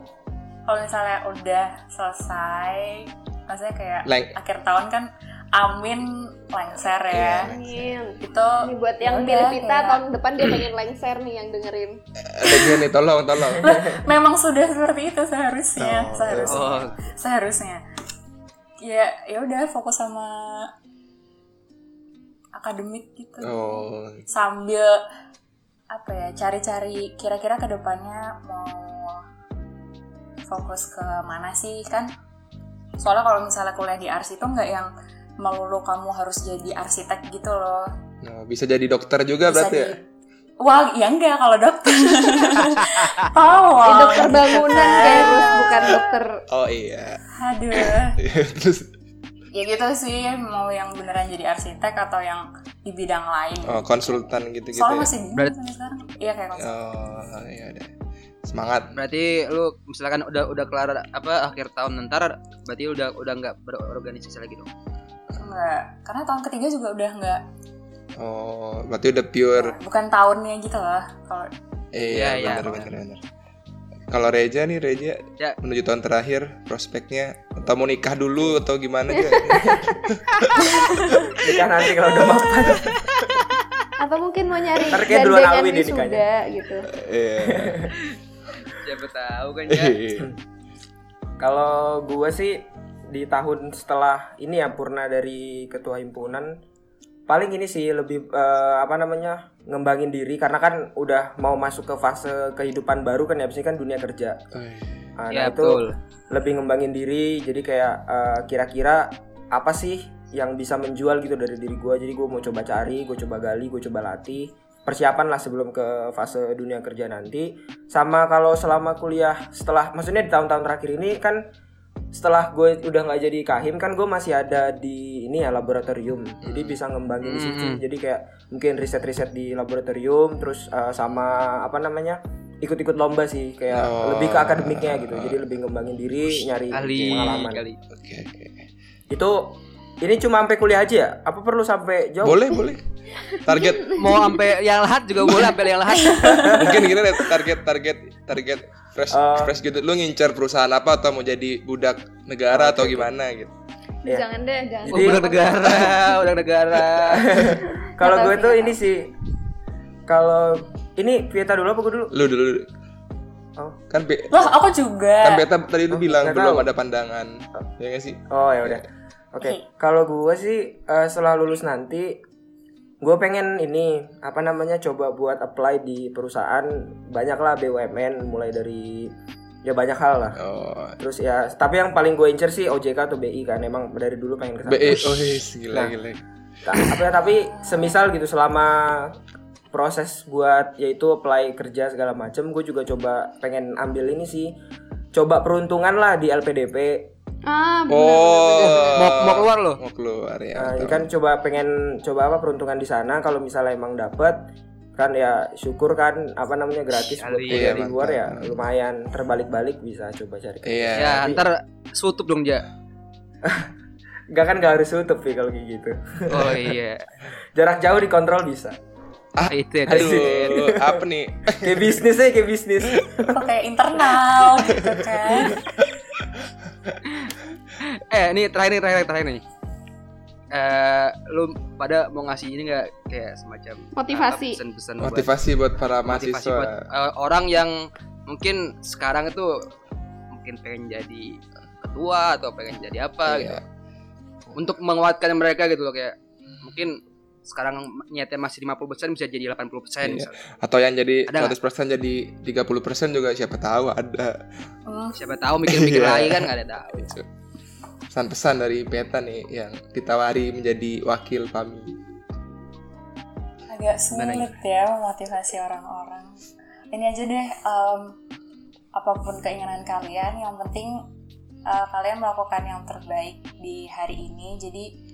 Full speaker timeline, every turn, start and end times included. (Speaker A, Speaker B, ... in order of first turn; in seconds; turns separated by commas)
Speaker A: 0.7-7.5, Speaker B: 4.0-4.3, Speaker B: 7.1-7.8, Speaker C: 7.4-12.0, Speaker A: 8.2-10.1, Speaker B: 12.2-14.0, Speaker A: 13.6-17.8, Speaker B: 15.8-16.8, Speaker D: 16.4-17.0, Speaker A: 18.8-20.7, Speaker A: 22.5-23.6, Speaker B: 23.4-24.2, Speaker A: 24.3-25.0, Speaker A: 25.9-29.2, Speaker A: 30.4-32.1, Speaker A: 33.0-37.9, Speaker B: 38.2-40.0, Speaker A: 39.5-40.1, Speaker A: 40.6-46.0, Speaker C: 43.8-46.4, Speaker B: 46.5-47.2, Speaker A: 47.4-48.2, Speaker B: 47.7-48.9, Speaker A: 49.5-56.7, Speaker B: 53.6-55.1, Speaker B: 56.6-57.9, Speaker B: 58.5-58.9, Speaker D: 59.0-64.7, Speaker A: 65.4-67.5, Speaker B: 68.2-69.8, Speaker A: 69.5-71.5, Speaker B: 71.9-73.2, Speaker D: 72.1-72.9, Speaker B: 74.1-80.9, Speaker C: 79.2-79.8, Speaker A: 80.6-81.3, Speaker E: 81.4-82.9, Speaker C: 84.0-86.9, Speaker E: 84.9-86.2, Speaker B: 86.9-87.9, Speaker E: 87.4-87.9, Speaker D: 88.1-90.0, Speaker B: 89.7-90.3, Speaker E: 91.4-96.6, Speaker E: 97.3-104.4, Speaker B: 104.5-105.1, Speaker E: 105.2-121.4, Speaker D: 105.3-106.0, Speaker E: 122.1-137.6, Speaker B: 126.4-126.8, Speaker D: 127.2-127.8, Speaker B: 133.7-135.4, Speaker D: 136.7-137.8, Speaker B: 137.9-138.6, Speaker E: 139.1-142.6, Speaker B: 142.2-142.8, Speaker C: 143.3-144.5, Speaker B: 143.4-144.1, Speaker D: 143.9-146.7, Speaker A: 145.9-146.6, Speaker E: 146.4-146.9, Speaker B: 146.4-153.5, Speaker E: 149.1-149.6, Speaker E: 152.5-153.1, Speaker C: 154.1-156.1, Speaker E: 154.8-155.3, Speaker D: 154.9-157.3, Speaker E: 157.1-159.1, Speaker C: 157.6-158.8, Speaker E: 160.1-162.1, Speaker B: 162.1-162.7, Speaker B: 163.9-164.5, Speaker A: 164.3-165.4, Speaker B: 165.2-168.8, Speaker E: 165.9-166.7, Speaker E: 168.3-172.2, Speaker E: 173.0-179.1, Speaker E: 179.6-180.4, Speaker B: 180.4-181.0, Speaker E: 181.0-185.9, Speaker B: 184.7-186.2, Speaker E: 186.7-189.2, Speaker B: 186.7-187.0, Speaker E: 189.7-194.6, Speaker E: 195.1-197.1, Speaker C: 197.4-199.2, Speaker B: 197.9-201.1, Speaker D: 198.6-199.8, Speaker E: 200.6-211.4, Speaker D: 207.1-207.9, Speaker B: 207.5-208.6, Speaker B: 210.7-211.3, Speaker D: 210.9-212.6, Speaker E: 213.4-213.7, Speaker E: 214.3-216.8, Speaker D: 216.3-217.1, Speaker E: 217.6-218.8, Speaker B: 219.4-222.0, Speaker D: 219.5-220.5, Speaker E: 219.9-223.4, Speaker A: 223.2-225.6, Speaker B: 224.4-225.7, Speaker D: 227.1-229.4, Speaker D: 230.5-235.3, Speaker C: 233.9-234.6, Speaker B: 235.0-236.8, Speaker D: 236.1-239.6, Speaker D: 240.4-243.6, Speaker B: 243.3-243.6, Speaker D: 244.6-250.4, Speaker B: 250.0-254.4, Speaker D: 251.3-251.6, Speaker A: 254.9-255.2, Speaker D: 255.2-257.1, Speaker B: 255.7-257.3, Speaker B: 258.1-262.0, Speaker A: 263.7-266.4, Speaker D: 264.1-264.5, Speaker A: 266.9-268.2, Speaker A: 268.9-271.1, Speaker A: 271.7-274.9